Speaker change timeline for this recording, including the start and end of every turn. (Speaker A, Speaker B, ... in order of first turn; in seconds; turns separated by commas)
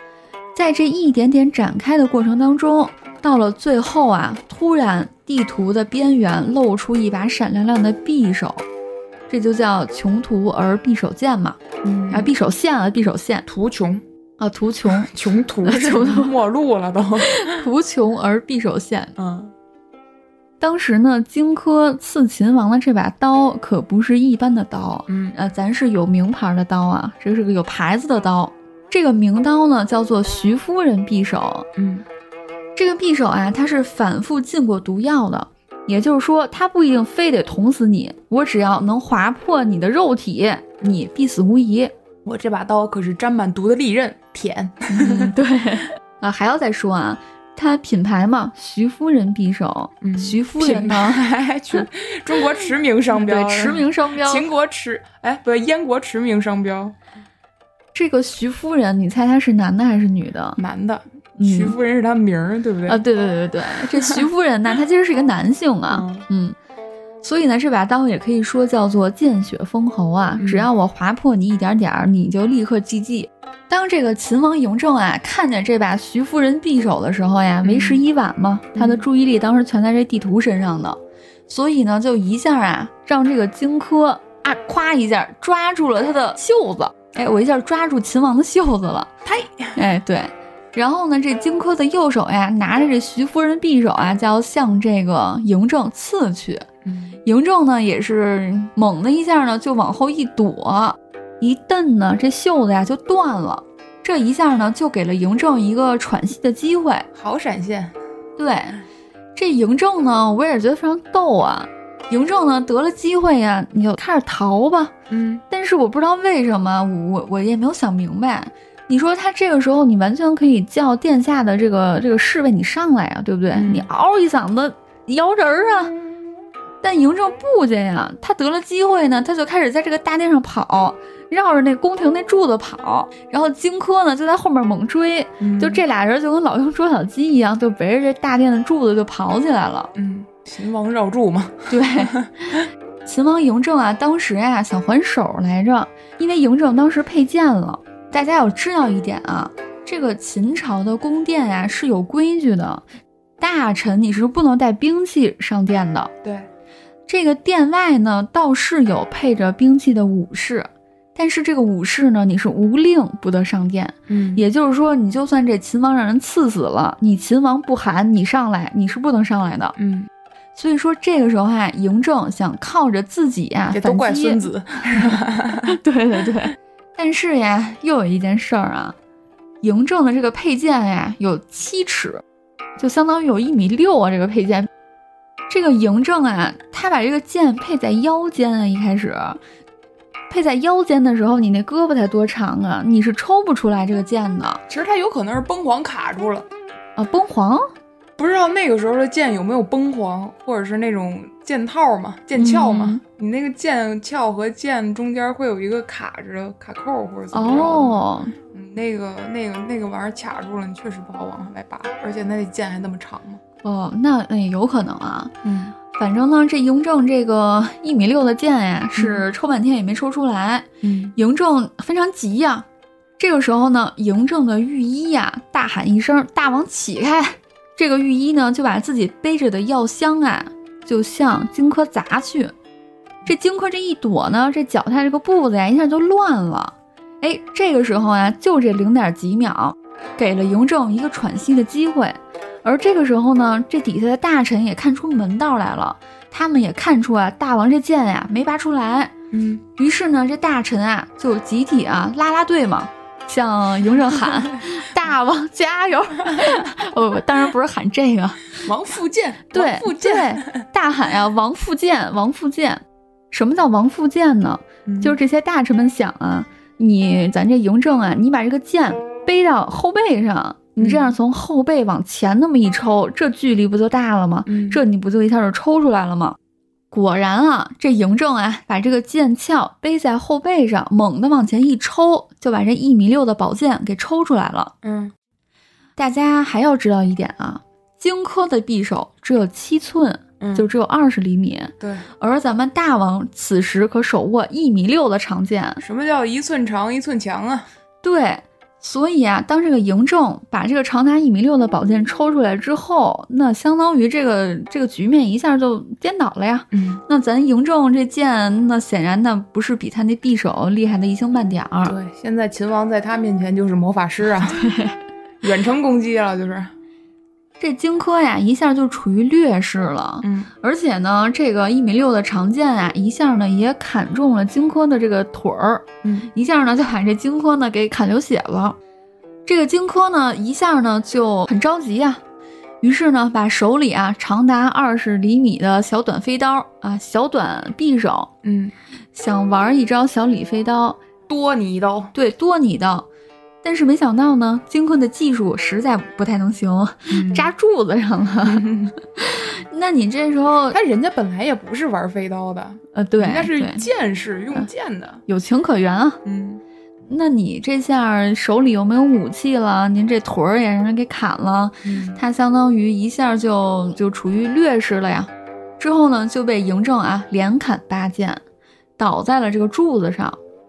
Speaker A: 0.5-8.6, Speaker A: 9.3-11.6, Speaker B: 11.8-12.3, Speaker A: 12.1-13.4, Speaker B: 13.5-14.0, Speaker A: 14.4-15.1, Speaker B: 14.9-17.6, Speaker A: 15.6-16.3, Speaker A: 17.2-19.1, Speaker B: 19.1-19.5, Speaker A: 20.6-31.7, Speaker B: 25.1-25.4, Speaker B: 31.8-32.0, Speaker A: 32.8-41.9, Speaker B: 42.2-45.4, Speaker A: 44.9-51.2, Speaker B: 50.0-57.0, Speaker A: 53.1-54.5, Speaker A: 57.9-60.6, Speaker B: 60.6-63.0, Speaker A: 61.4-61.8, Speaker A: 62.9-66.5, Speaker B: 63.8-64.2, Speaker B: 65.9-66.2, Speaker A: 67.2-89.1, Speaker B: 70.4-70.7, Speaker B: 77.6-78.0, Speaker B: 78.7-79.0, Speaker B: 89.2-89.7, Speaker A: 89.7-96.7, Speaker B: 96.8-97.2, Speaker A: 97.2-107.1, Speaker B: 107.1-107.9, Speaker A: 108.4-108.8, Speaker A: 109.3-114.9, Speaker B: 115.1-115.4, Speaker A: 115.5-125.9, Speaker B: 123.5-123.9, Speaker A: 126.8-139.9, Speaker B: 135.4-135.8, Speaker B: 139.9-142.6, Speaker A: 141.7-152.8, Speaker A: 153.4-156.1, Speaker B: 156.2-156.5, Speaker A: 157.1-169.8, Speaker B: 164.1-164.4, Speaker B: 169.8-170.1, Speaker A: 170.6-174.4, Speaker B: 173.7-175.8, Speaker A: 175.0-178.9, Speaker A: 179.6-182.2, Speaker A: 182.8-184.7, Speaker A: 185.5-189.4, Speaker A: 190.3-194.6, Speaker B: 194.7-196.5, Speaker A: 197.0-197.7, Speaker B: 198.2-213.4, Speaker A: 202.3-203.0, Speaker A: 207.3-208.3, Speaker A: 213.6-215.3, Speaker B: 215.4-215.7, Speaker A: 215.9-222.7, Speaker B: 218.9-219.2, Speaker B: 220.8-221.1, Speaker A: 223.2-232.5, Speaker A: 233.2-249.1, Speaker B: 249.3-249.6, Speaker A: 249.8-258.7, Speaker B: 258.6-260.6, Speaker A: 259.5-276.4, Speaker B: 264.9-265.2, Speaker B: 270.8-271.1, Speaker B: 274.5-274.8, Speaker A: 276.9-284.7, Speaker B: 284.8-285.1, Speaker A: 285.9-295.8, Speaker B: 290.4-290.7, Speaker B: 291.8-292.1, Speaker B: 295.8-297.7, Speaker A: 298.0-311.9, Speaker B: 306.7-307.0, Speaker B: 311.8-314.7, Speaker A: 314.4-315.0, Speaker B: 315.4-316.7, Speaker A: 317.6-328.8, Speaker B: 320.2-320.5, Speaker B: 326.0-326.3, Speaker A: 329.4-332.2, Speaker A: 332.8-338.3, Speaker B: 338.4-338.7, Speaker A: 339.1-341.0, Speaker B: 341.3-342.1, Speaker A: 342.1-343.1, Speaker A: 343.6-350.8, Speaker B: 347.1-347.5, Speaker B: 348.4-348.9, Speaker B: 350.7-355.2, Speaker A: 352.9-353.9, Speaker A: 355.3-356.2, Speaker B: 356.2-356.6, Speaker A: 357.1-368.4, Speaker B: 361.8-362.2, Speaker A: 369.0-370.4